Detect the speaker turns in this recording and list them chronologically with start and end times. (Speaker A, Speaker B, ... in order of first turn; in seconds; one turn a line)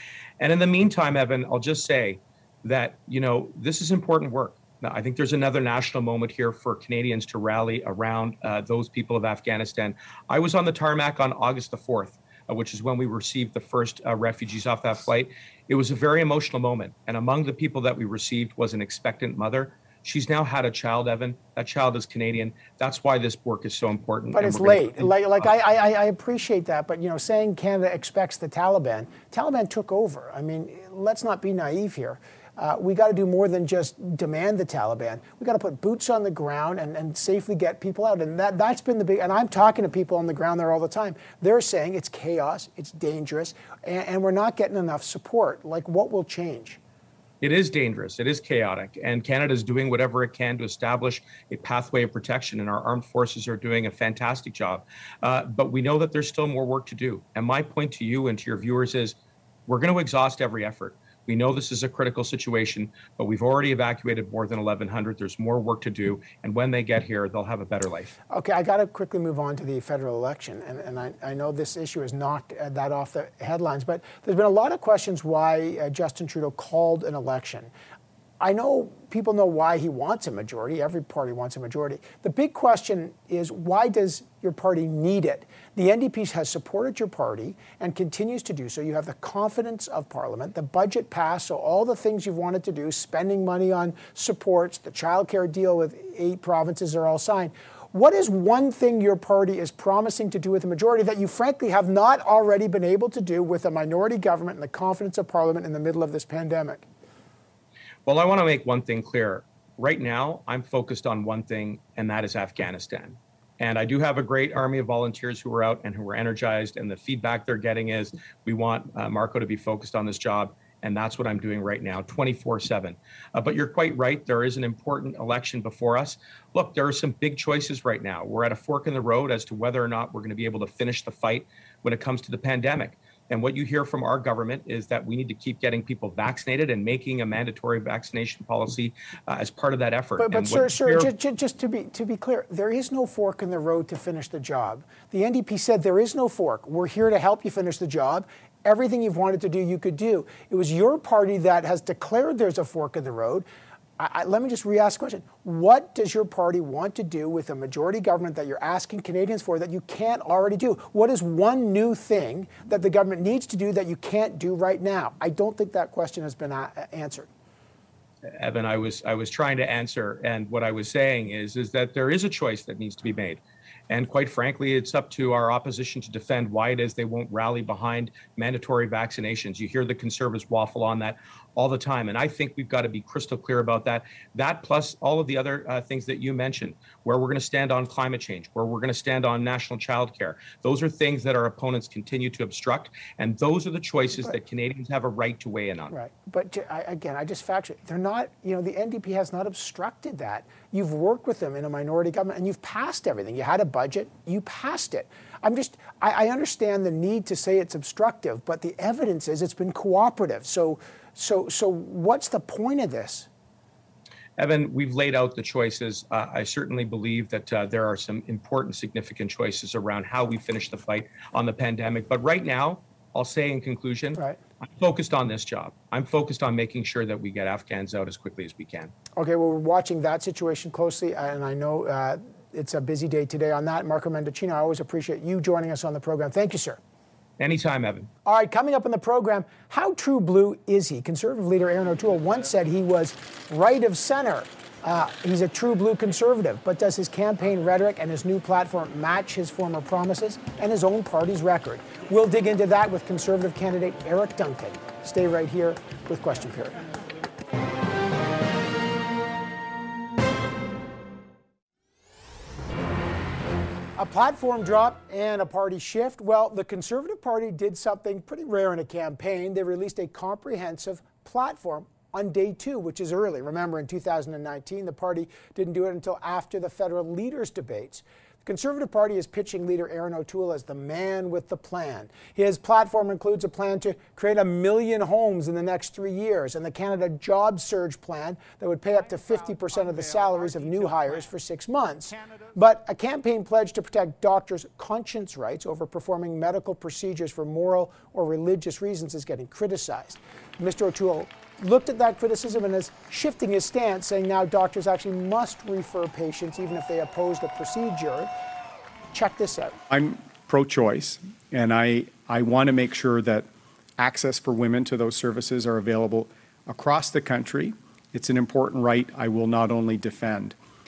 Speaker A: 0.4-25.1
Speaker B: 24.3-46.8
Speaker A: 47.4-68.2
Speaker B: 68.3-77.7
Speaker B: 78.4-106.8
Speaker A: 108.0-141.1
Speaker B: 140.2-153.4
Speaker B: 154.0-167.3
Speaker A: 168.2-195.9
Speaker B: 195.9-213.3
Speaker A: 214.4-228.9
Speaker B: 229.2-236.8
Speaker A: 237.4-238.1
Speaker B: 238.2-256.8
Speaker B: 264.0-308.3
Speaker B: 309.1-309.8
Speaker C: 309.9-320.6